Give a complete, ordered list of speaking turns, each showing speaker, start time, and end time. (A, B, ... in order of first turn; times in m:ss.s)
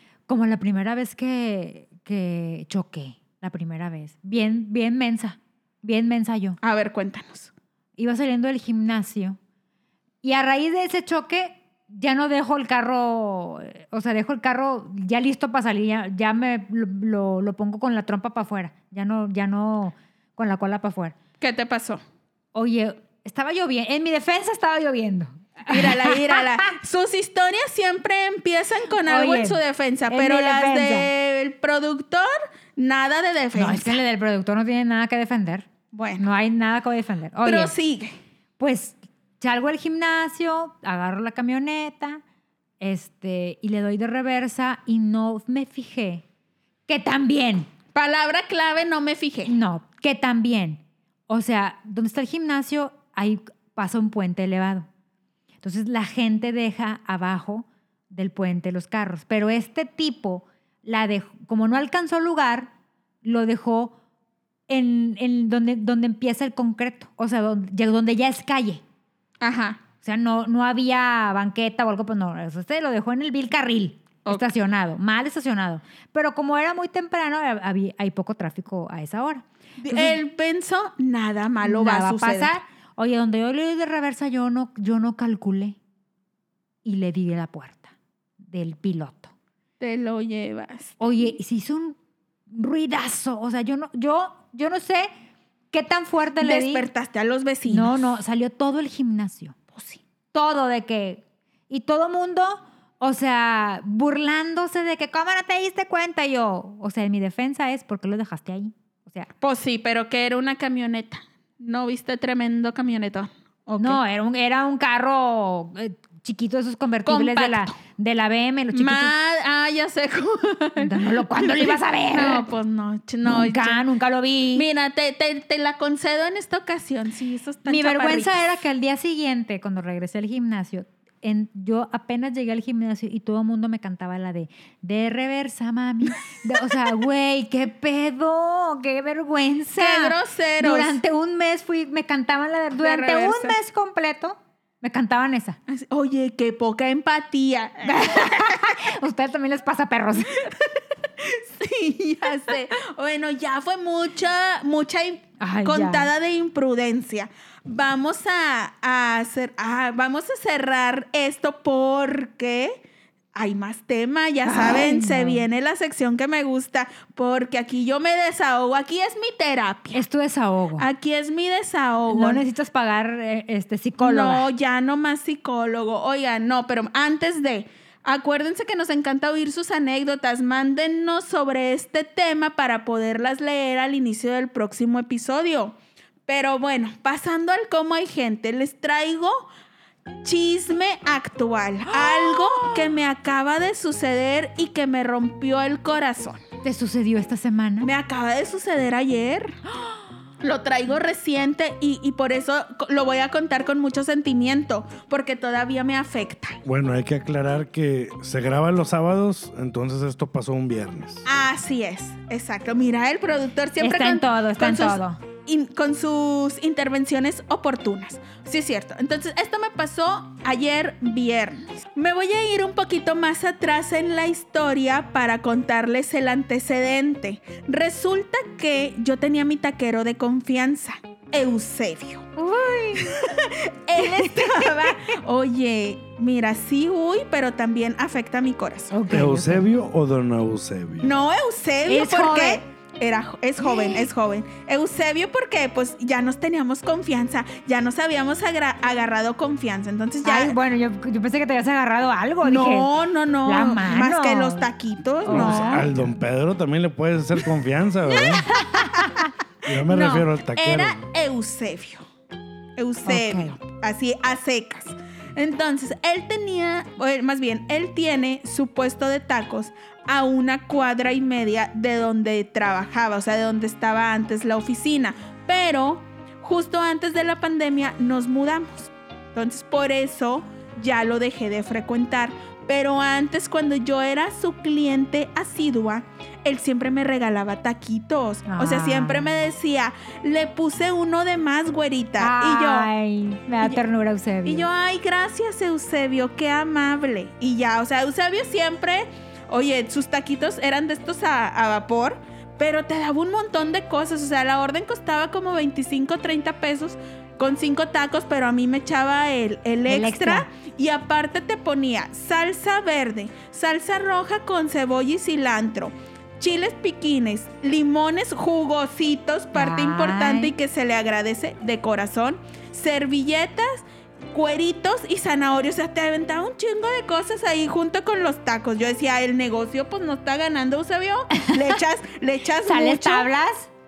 0:00.3-0:06.6 A
0:06.6-0:07.5 B
0:08.0-0:09.4 A
0:10.2-0:21.2 A
0:21.4-0:22.0 B
0:22.5-0:26.7 A
0:25.7-0:34.0 B
0:29.0-0:31.1 A
0:33.5-0:35.7 A
0:35.9-0:36.2 B
0:36.2-0:37.7 A
0:37.4-0:38.1 B
0:38.6-0:42.2 A
0:42.8-0:46.2 A
0:46.9-0:47.7 A
0:47.9-0:49.5 B
0:49.5-0:54.9 A
0:55.6-1:02.7 A
1:03.2-1:03.9 A
1:04.7-1:08.8 A
1:09.4-1:09.8 B
1:10.0-1:20.2 A
1:19.8-1:22.5 B
1:21.6-1:25.8 A
1:26.8-1:27.9 A
1:28.5-1:29.3 A
1:29.8-1:31.0 B
1:31.0-1:32.0 A
1:32.5-1:35.1 A
1:35.7-1:36.9 A
1:36.4-1:38.0 B
1:37.7-1:39.6 A
1:39.7-1:40.0 B
1:40.3-1:49.3 A
1:49.4-1:54.0 B
1:53.7-1:59.1 A
1:57.0-1:57.8 B
1:58.7-2:03.8 B
2:00.8-2:02.4 A
2:03.2-2:04.6 A
2:04.5-2:08.5 B
2:07.6-2:25.6 A
2:19.8-2:21.0 B
2:22.8-2:23.6 B
2:25.7-2:28.6 B
2:27.8-2:30.5 A
2:31.2-2:42.8 B
2:35.4-2:36.1 A
2:43.3-2:50.0 B
2:44.4-2:45.4 A
2:49.9-2:50.9 A
2:50.8-2:52.4 B
2:52.1-2:54.5 A
2:54.0-3:09.5 B
3:10.2-3:16.4 B
3:11.9-3:12.9 A
3:16.6-3:17.9 A
3:17.8-3:19.6 B
3:20.4-3:26.6 B
3:26.6-3:31.3 C
3:31.2-3:52.3 B
3:33.8-3:35.2 A
3:52.4-3:53.1 A
3:53.0-3:59.0 B
3:54.0-3:55.1 A
3:58.9-3:59.7 A
3:59.1-4:01.1 C
4:01.0-4:10.6 B
4:01.9-4:02.6 A
4:03.6-4:04.0 A
4:10.2-4:12.9 A
4:12.4-4:15.9 B
4:13.4-4:14.6 A
4:15.2-4:15.9 A
4:15.3-4:18.5 C
4:18.5-4:19.3 A
4:18.9-4:22.0 B
4:19.6-4:21.0 C
4:22.8-4:52.9 B
4:23.0-4:23.5 A
4:48.5-4:49.3 A
4:52.2-4:54.7 A
4:54.4-5:33.3 B
5:09.9-5:10.5 A
5:19.5-5:20.5 A
5:31.3-5:31.8 A
5:32.6-5:33.7 A